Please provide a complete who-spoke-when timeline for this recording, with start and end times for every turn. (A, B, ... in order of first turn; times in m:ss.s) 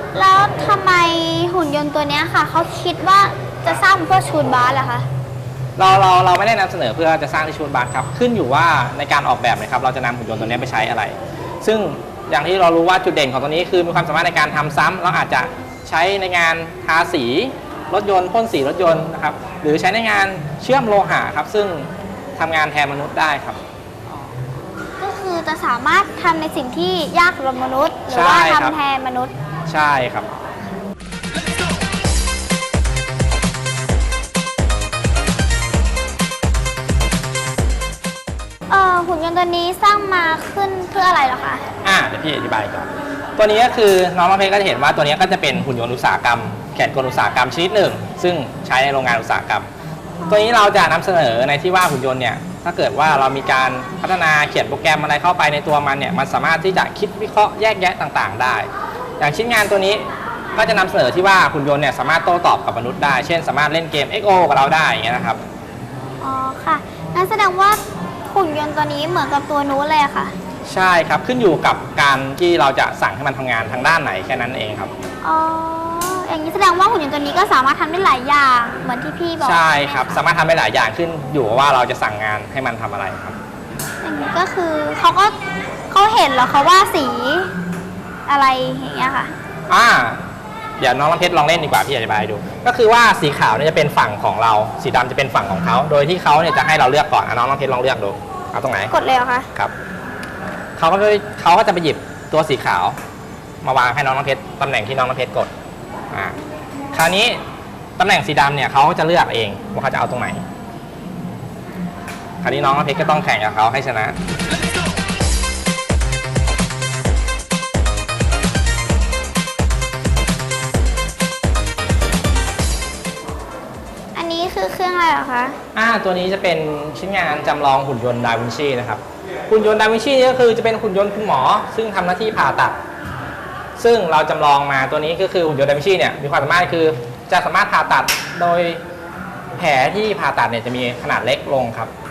0:00.1-0:05.1 A
0:05.8-0:23.6 B
0:25.0-0:29.3 A
0:28.1-0:28.8 B
0:29.7-0:30.3 B
0:38.7-0:41.6 A
0:41.8-0:49.7 B
0:50.3-1:05.4 B
1:06.2-1:10.3 A
1:10.7-1:14.9 B
1:15.2-1:20.2 A
1:19.4-1:23.4 B
1:24.0-1:25.4 A
1:25.9-1:27.5 A
1:28.3-1:29.3 A
1:29.7-1:30.2 B
1:30.8-1:38.9 B
1:38.9-1:39.5 A
1:40.8-1:43.0 B
1:43.6-1:45.5 B
1:46.1-1:46.4 B
1:46.9-1:47.4 B
1:48.0-1:50.4 B
1:52.4-1:54.2 B
2:04.2-2:05.6 A
2:05.7-2:12.8 B
2:13.8-2:18.8 B
2:19.6-2:21.9 B